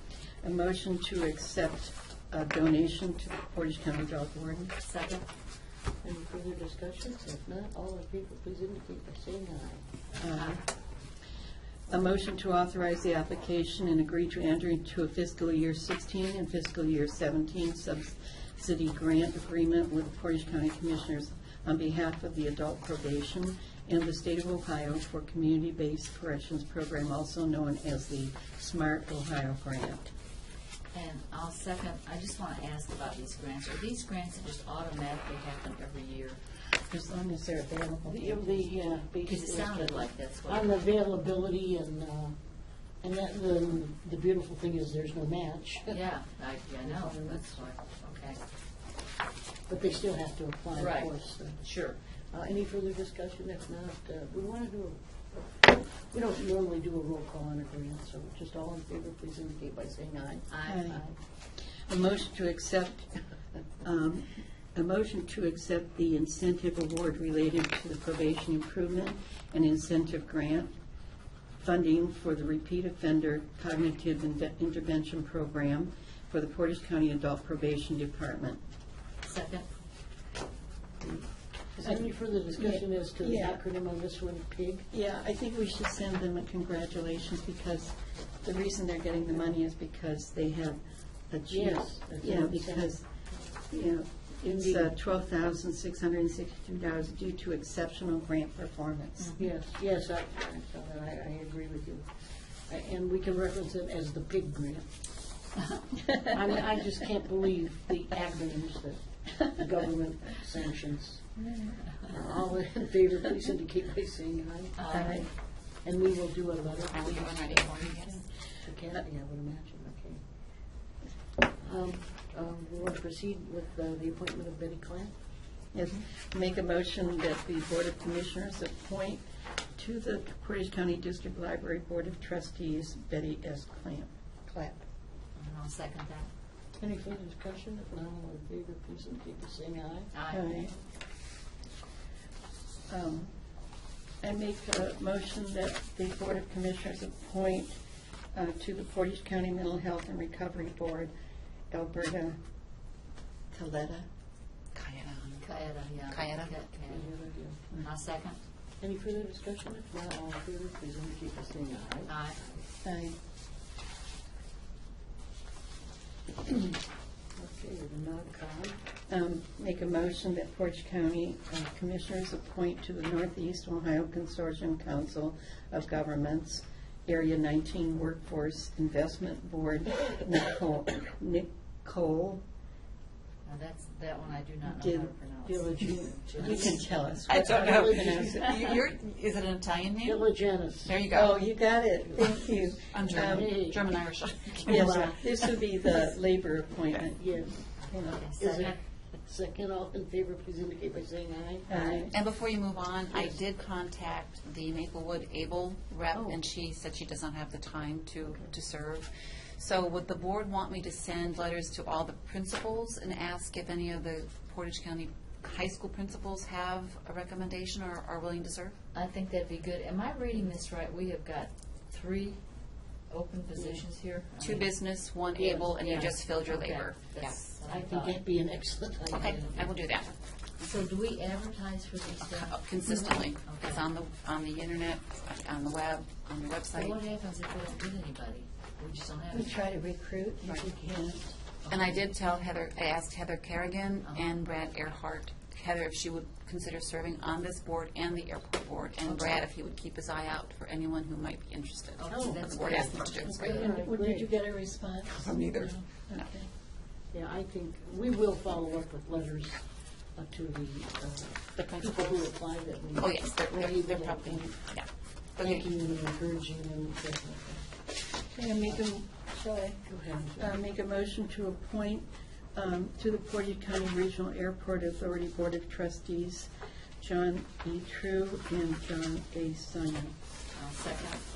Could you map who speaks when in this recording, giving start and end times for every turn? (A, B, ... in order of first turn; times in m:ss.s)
0:00.4-0:04.7 A
0:04.8-0:05.3 B
0:06.0-0:09.8 C
0:10.2-0:10.6 A
0:10.3-0:10.6 B
0:11.9-0:30.1 A
0:30.9-0:36.4 B
0:36.9-0:38.7 A
0:38.0-0:42.4 C
0:39.2-0:40.7 B
0:43.0-0:46.0 C
0:45.9-0:48.4 B
0:46.8-0:47.6 C
0:49.7-0:51.6 C
0:50.7-0:52.0 B
0:52.3-1:01.2 C
1:00.5-1:00.9 B
1:00.7-1:01.0 A
1:01.9-1:03.2 A
1:03.8-1:10.7 A
1:11.6-1:18.6 A
1:19.2-1:19.8 B
1:21.7-1:24.9 C
1:22.6-1:23.6 A
1:24.9-1:33.0 A
1:31.5-1:33.0 C
1:33.7-1:39.4 A
1:34.5-1:35.0 C
1:39.2-1:39.4 B
1:39.4-1:42.1 C
1:42.6-1:44.8 C
1:46.2-1:54.9 C
1:54.8-1:55.2 B
1:54.9-1:55.3 A
1:55.8-2:00.2 C
1:56.9-1:58.2 D
2:01.5-2:05.1 C
2:05.7-2:14.8 A
2:15.4-2:16.3 B
2:16.8-2:20.1 C
2:20.1-2:20.7 B
2:20.3-2:20.7 A
2:22.9-2:23.3 A
2:24.2-2:27.8 A
2:28.3-2:31.1 A
2:31.7-2:32.4 A
2:33.5-2:34.1 A
2:34.7-2:35.5 D
2:35.4-2:37.2 B
2:36.0-2:36.5 D
2:36.9-2:37.6 C
2:37.7-2:38.4 B
2:38.8-2:42.6 C
2:42.0-2:42.4 B
2:42.8-2:43.1 A
2:47.4-2:48.8 C
2:49.1-3:02.4 A
3:03.4-3:06.8 B
3:04.6-3:05.1 A
3:05.4-3:08.8 C
3:06.4-3:08.7 A
3:07.3-3:11.4 D
3:10.0-3:11.0 C
3:11.1-3:13.5 A
3:12.0-3:13.8 C
3:12.9-3:15.6 D
3:14.6-3:15.4 C
3:14.6-3:17.2 A
3:17.1-3:17.8 C
3:17.9-3:18.2 A
3:17.9-3:18.8 B
3:18.4-3:22.1 C
3:21.7-3:22.1 A
3:22.1-3:38.8 D
3:23.1-3:23.4 C
3:26.1-3:26.4 C
3:38.9-3:42.4 B
3:43.1-3:44.7 B
3:43.6-3:43.8 C
3:44.4-3:47.5 D
3:45.3-3:45.7 C
3:45.8-3:48.2 B
3:47.6-3:49.5 C
3:49.1-3:50.1 D
3:49.3-3:49.6 B
3:50.6-3:52.6 B
3:52.2-3:57.0 D
3:53.3-3:53.8 B
3:56.7-3:59.6 B
3:59.3-4:01.2 A
4:01.6-4:02.4 B
4:01.7-4:13.7 D
4:04.0-4:04.4 B
4:09.1-4:09.4 C
4:12.0-4:13.8 B
4:12.1-4:12.9 C
4:13.3-4:16.5 A
4:13.4-4:14.3 C
4:15.2-4:16.3 D
4:17.1-4:24.6 C
4:21.6-4:22.3 D
4:23.0-4:24.9 D
4:25.4-4:27.7 C
4:25.4-4:25.7 D
4:28.3-4:29.8 A
4:29.8-4:30.6 C
4:30.4-4:40.1 A
4:40.5-4:41.2 B